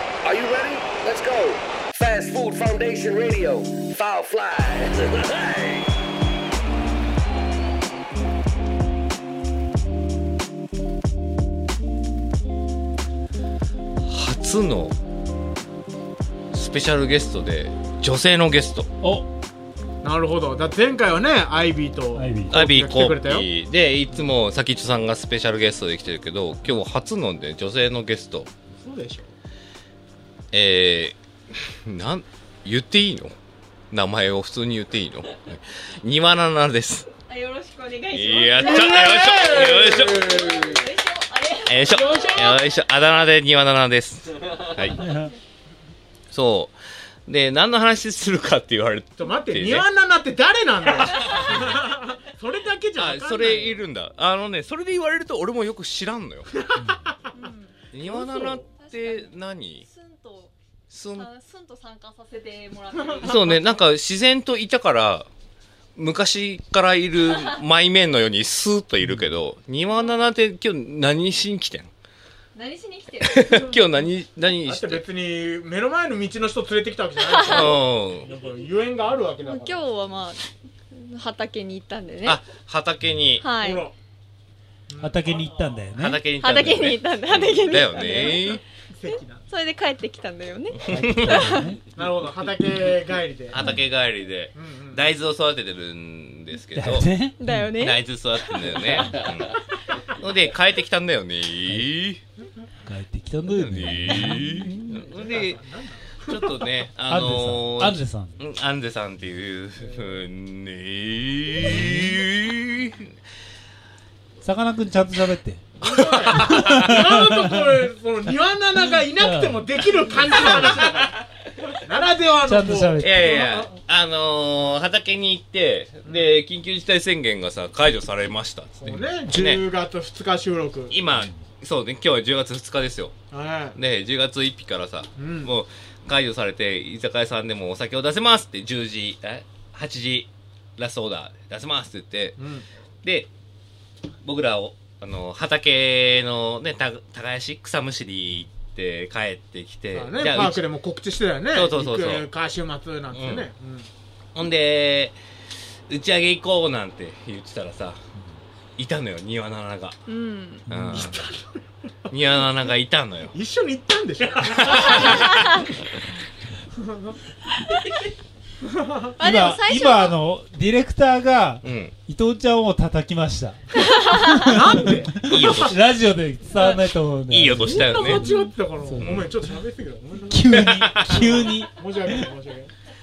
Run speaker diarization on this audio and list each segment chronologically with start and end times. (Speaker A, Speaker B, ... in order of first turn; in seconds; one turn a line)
Speaker A: 0.2-5.9
Speaker B: 14.1-14.9
Speaker B: 16.5-18.9
Speaker C: 19.0-19.3
Speaker D: 20.0-23.5
Speaker C: 22.1-22.6
Speaker B: 22.5-28.5
Speaker D: 28.8-29.3
Speaker B: 30.5-31.2
Speaker B: 31.9-33.3
Speaker B: 33.9-37.1
Speaker E: 37.3-39.3
Speaker B: 38.1-40.3
Speaker D: 38.6-40.8
Speaker E: 40.1-42.6
Speaker B: 41.6-45.0
Speaker D: 42.1-42.5
Speaker C: 45.0-45.3
Speaker B: 46.3-49.9
Speaker D: 49.2-53.8
Speaker B: 51.0-51.5
Speaker E: 51.2-51.6
Speaker B: 53.0-56.5
Speaker D: 56.8-57.1
Speaker E: 57.3-57.9
Speaker B: 57.9-59.8
Speaker D: 58.0-58.6
Speaker E: 58.7-60.5
Speaker B: 60.9-61.3
Speaker E: 61.1-63.7
Speaker B: 63.2-65.3
Speaker B: 66.0-71.9
Speaker C: 69.0-69.3
Speaker E: 72.5-73.8
Speaker B: 73.2-75.0
Speaker D: 74.6-79.8
Speaker E: 77.2-77.7
Speaker B: 77.4-78.3
Speaker E: 79.4-82.4
Speaker B: 82.2-83.4
Speaker E: 83.4-83.9
Speaker D: 83.6-83.9
Speaker D: 84.9-85.3
Speaker C: 85.0-86.2
Speaker B: 86.0-88.6
Speaker E: 86.4-91.7
Speaker D: 88.9-89.4
Speaker C: 90.8-91.8
Speaker B: 90.9-91.4
Speaker D: 91.9-93.7
Speaker B: 93.5-97.1
Speaker D: 94.5-95.1
Speaker C: 96.7-97.7
Speaker E: 97.4-98.0
Speaker B: 97.8-102.2
Speaker C: 102.8-104.7
Speaker B: 103.5-105.6
Speaker D: 104.9-106.5
Speaker B: 106.2-113.1
Speaker C: 107.0-108.4
Speaker D: 109.8-110.2
Speaker C: 111.7-112.0
Speaker C: 114.4-115.7
Speaker B: 115.8-116.9
Speaker D: 115.8-121.2
Speaker C: 116.3-117.8
Speaker C: 119.0-119.7
Speaker C: 120.3-120.7
Speaker D: 121.8-123.7
Speaker C: 122.4-123.4
Speaker B: 123.0-129.6
Speaker D: 128.8-130.9
Speaker B: 130.9-133.1
Speaker D: 133.3-133.8
Speaker B: 133.7-142.4
Speaker D: 135.2-135.5
Speaker D: 142.4-142.7
Speaker B: 143.0-143.3
Speaker B: 144.2-150.7
Speaker D: 149.9-153.9
Speaker B: 151.5-152.3
Speaker B: 153.1-153.5
Speaker B: 154.3-155.2
Speaker B: 155.9-158.0
Speaker B: 158.8-160.0
Speaker E: 160.1-160.7
Speaker C: 160.7-161.2
Speaker B: 160.7-161.2
Speaker D: 160.9-161.6
Speaker B: 162.1-163.3
Speaker D: 163.3-165.3
Speaker B: 164.6-165.5
Speaker E: 165.3-165.6
Speaker D: 166.8-167.1
Speaker D: 168.6-169.1
Speaker E: 169.2-170.2
Speaker C: 169.2-178.3
Speaker B: 171.6-171.9
Speaker E: 173.8-174.4
Speaker D: 174.4-175.7
Speaker B: 175.2-175.7
Speaker B: 177.3-178.3
Speaker D: 177.6-180.5
Speaker E: 178.2-178.5
Speaker C: 178.8-179.2
Speaker B: 179.0-179.3
Speaker C: 180.3-182.3
Speaker B: 180.5-181.3
Speaker D: 181.2-182.7